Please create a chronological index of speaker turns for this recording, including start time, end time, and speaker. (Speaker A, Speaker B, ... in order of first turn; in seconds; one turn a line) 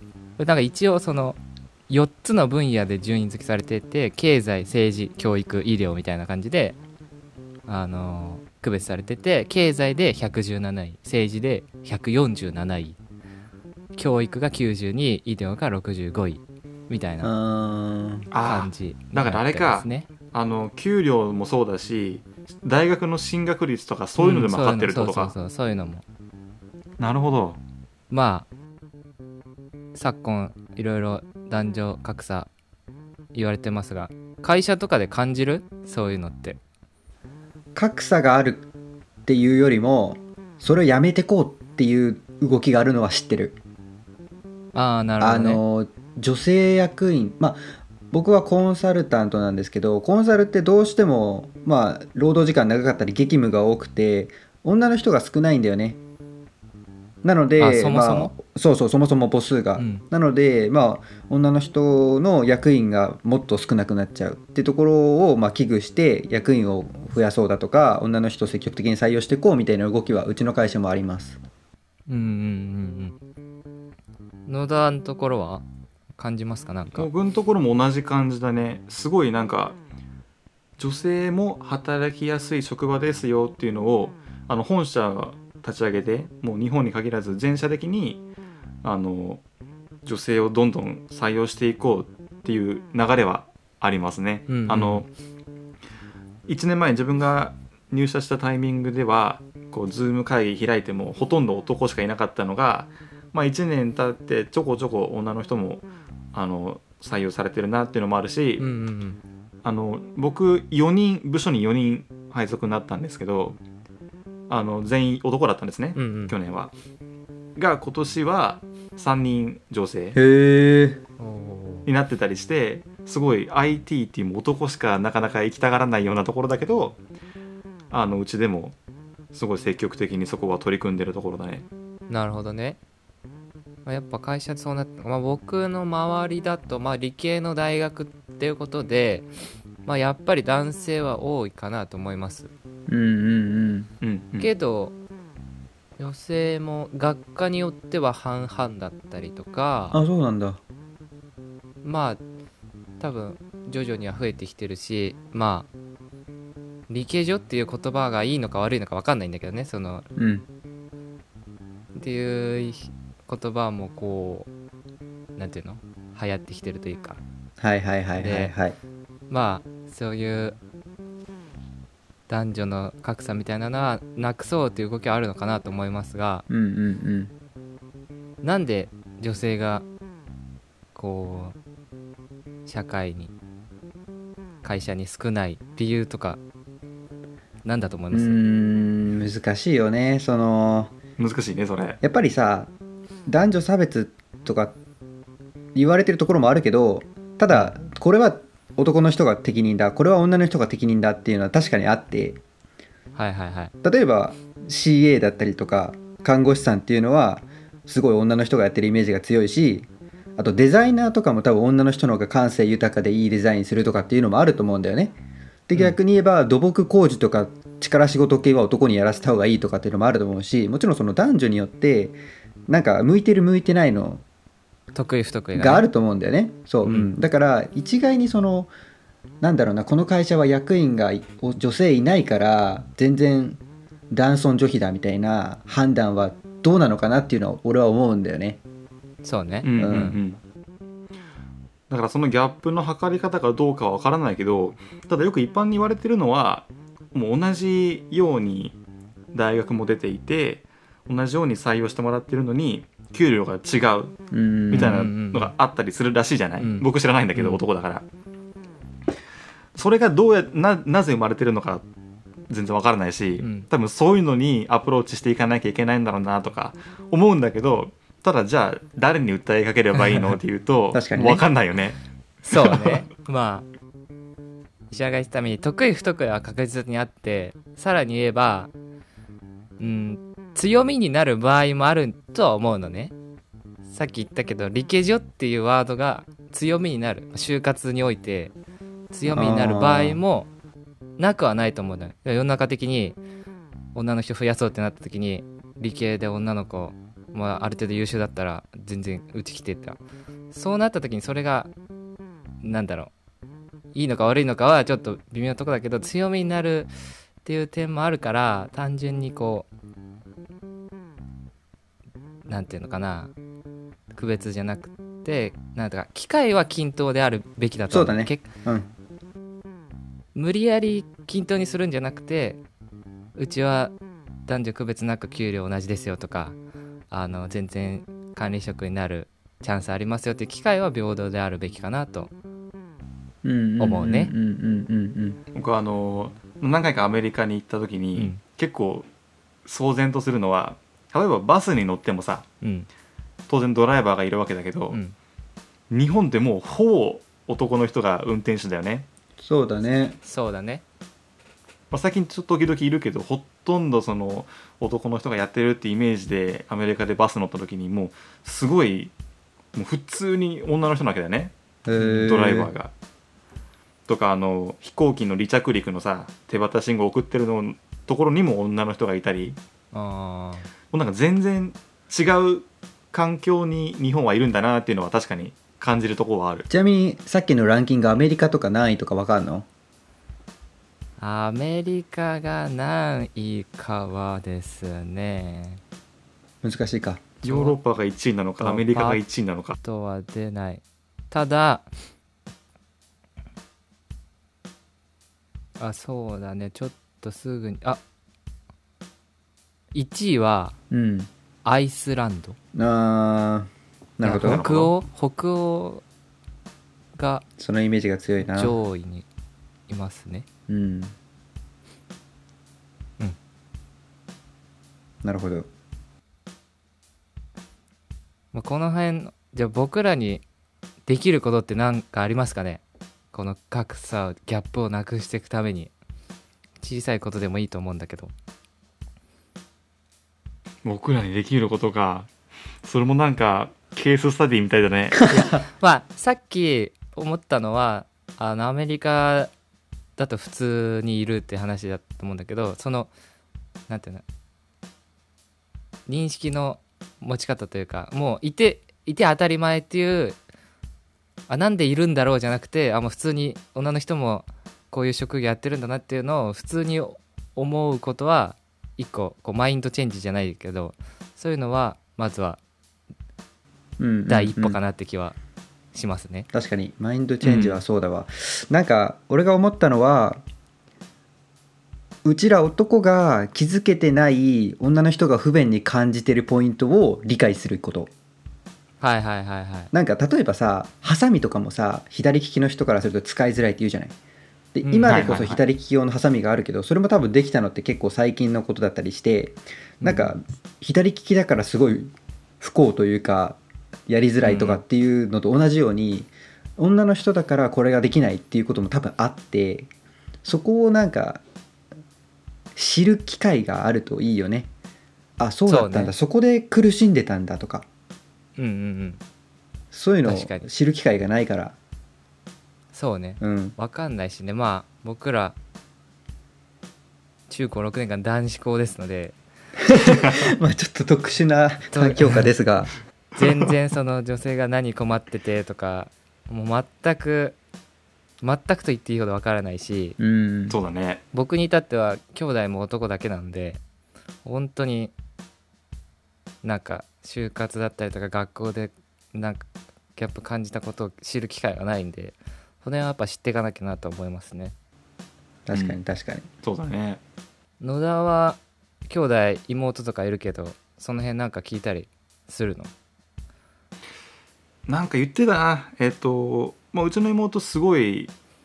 Speaker A: 0.4-6.8
Speaker A: 7.7-13.0
Speaker A: 13.9-17.3
Speaker B: 17.2-18.3
Speaker C: 18.3-25.3
Speaker A: 18.4-20.1
Speaker A: 24.2-26.0
Speaker C: 27.0-27.6
Speaker A: 28.1-28.5
Speaker A: 29.9-32.5
Speaker A: 33.3-36.6
Speaker B: 37.8-38.7
Speaker B: 39.2-43.6
Speaker A: 44.7-45.6
Speaker B: 45.2-56.0
Speaker B: 57.2-71.4
Speaker A: 57.6-58.3
Speaker A: 59.8-60.0
Speaker A: 72.1-73.2
Speaker A: 74.5-75.6
Speaker A: 76.2-77.1
Speaker C: 76.9-79.8
Speaker C: 80.8-88.2
Speaker C: 88.8-89.4
Speaker C: 90.0-95.1
Speaker A: 94.5-95.0
Speaker C: 96.5-108.7
Speaker A: 108.6-109.2
Speaker C: 109.6-113.6
Speaker C: 114.5-116.7
Speaker A: 116.0-116.3
Speaker C: 117.5-120.2
Speaker B: 120.1-121.0
Speaker A: 121.2-121.9
Speaker C: 121.8-127.0
Speaker C: 127.9-128.8
Speaker C: 129.3-131.7
Speaker A: 132.1-132.8
Speaker A: 133.8-139.3
Speaker A: 139.8-142.5
Speaker B: 142.9-143.9
Speaker C: 144.0-144.5
Speaker A: 144.4-144.9
Speaker A: 146.0-150.0
Speaker B: 149.9-150.6
Speaker A: 151.8-152.2
Speaker A: 153.0-155.7
Speaker A: 156.9-160.1
Speaker B: 160.2-160.4
Speaker A: 161.9-164.5
Speaker A: 165.4-167.2
Speaker B: 167.6-168.8
Speaker A: 168.2-168.5
Speaker A: 169.3-170.6
Speaker A: 172.3-176.4
Speaker B: 176.5-177.3
Speaker A: 178.4-179.9
Speaker A: 180.9-181.6
Speaker A: 182.7-183.3
Speaker A: 184.6-186.4
Speaker A: 187.6-188.4
Speaker B: 188.1-190.9
Speaker C: 191.2-192.0
Speaker B: 192.0-192.7
Speaker B: 193.3-194.8
Speaker B: 195.7-202.4
Speaker A: 197.5-197.7
Speaker A: 203.1-203.7
Speaker B: 203.8-215.2
Speaker B: 215.7-224.2
Speaker A: 224.9-225.8
Speaker B: 225.5-228.7
Speaker A: 226.8-227.1
Speaker B: 229.4-233.6
Speaker B: 234.1-238.6
Speaker A: 239.2-240.2
Speaker C: 239.6-240.4
Speaker B: 239.8-240.2
Speaker C: 241.9-248.8
Speaker C: 249.3-254.1
Speaker B: 254.3-255.0
Speaker C: 254.7-258.1
Speaker A: 254.7-255.5
Speaker A: 256.6-257.6
Speaker C: 259.8-261.9
Speaker C: 262.5-272.0
Speaker A: 263.4-263.7
Speaker B: 270.9-271.4
Speaker A: 272.4-273.6
Speaker C: 272.5-273.0
Speaker A: 274.9-278.7
Speaker A: 279.8-283.1
Speaker A: 283.9-288.5
Speaker A: 289.1-290.5
Speaker B: 289.3-290.2
Speaker A: 291.2-293.2
Speaker A: 293.9-300.0
Speaker A: 300.5-301.7
Speaker A: 302.6-303.1
Speaker A: 303.9-306.9
Speaker A: 307.4-309.7
Speaker A: 312.4-313.3
Speaker A: 314.1-318.5
Speaker B: 317.9-318.9
Speaker A: 320.3-322.6
Speaker A: 323.4-323.9
Speaker A: 324.4-326.6
Speaker A: 327.1-332.3
Speaker B: 333.4-335.4
Speaker A: 333.8-334.3
Speaker C: 335.5-339.1
Speaker A: 338.1-338.4
Speaker C: 339.6-342.4
Speaker A: 342.6-342.9
Speaker C: 343.5-345.0
Speaker A: 344.9-345.1
Speaker C: 345.9-349.1
Speaker B: 349.4-350.2
Speaker A: 350.2-350.8
Speaker C: 351.9-359.1
Speaker C: 359.7-361.5
Speaker B: 361.9-362.7
Speaker A: 362.0-362.3
Speaker C: 362.2-362.9
Speaker C: 364.1-369.6
Speaker A: 369.9-370.7
Speaker C: 370.9-376.7
Speaker B: 376.7-379.6
Speaker A: 381.2-385.8
Speaker B: 386.6-387.3
Speaker C: 387.4-389.8
Speaker A: 387.4-387.8
Speaker A: 388.6-389.2
Speaker A: 389.8-391.9
Speaker A: 395.8-398.0
Speaker A: 399.9-400.8
Speaker B: 400.9-401.3
Speaker A: 401.6-402.6
Speaker B: 402.7-404.9
Speaker A: 404.2-406.0
Speaker A: 407.1-407.4
Speaker B: 407.6-408.8
Speaker A: 408.4-409.2
Speaker A: 409.9-410.4
Speaker B: 410.7-411.1
Speaker B: 415.2-415.7
Speaker A: 418.5-420.4
Speaker A: 421.1-422.8
Speaker A: 423.3-425.9
Speaker A: 426.8-428.3
Speaker C: 430.8-432.3
Speaker C: 432.8-435.2
Speaker A: 435.3-439.5
Speaker A: 440.2-443.1
Speaker A: 443.9-444.2
Speaker A: 446.1-450.4
Speaker A: 451.5-462.6
Speaker B: 464.0-464.8
Speaker A: 464.3-465.3
Speaker A: 465.9-466.5
Speaker B: 466.5-470.4
Speaker C: 467.4-467.8
Speaker B: 472.2-478.1
Speaker A: 479.0-479.9
Speaker B: 479.9-484.1
Speaker B: 484.7-499.9
Speaker A: 484.8-485.5
Speaker C: 485.0-485.6
Speaker A: 490.0-490.3
Speaker A: 494.4-494.8
Speaker B: 500.4-501.4
Speaker B: 502.8-504.7
Speaker B: 505.4-507.8
Speaker A: 505.6-506.1
Speaker A: 508.6-509.2
Speaker B: 509.9-511.8
Speaker A: 510.2-510.6
Speaker A: 512.9-515.6
Speaker B: 513.4-513.8
Speaker A: 517.5-519.4
Speaker B: 519.9-522.9
Speaker A: 521.9-522.5
Speaker A: 523.4-527.6
Speaker A: 528.4-530.2
Speaker B: 530.2-530.8
Speaker C: 530.7-531.2
Speaker A: 531.3-533.8
Speaker A: 534.4-535.1
Speaker A: 536.6-544.7
Speaker B: 545.7-546.5
Speaker C: 545.7-546.0
Speaker C: 546.6-547.2
Speaker A: 547.8-552.9
Speaker C: 554.9-558.3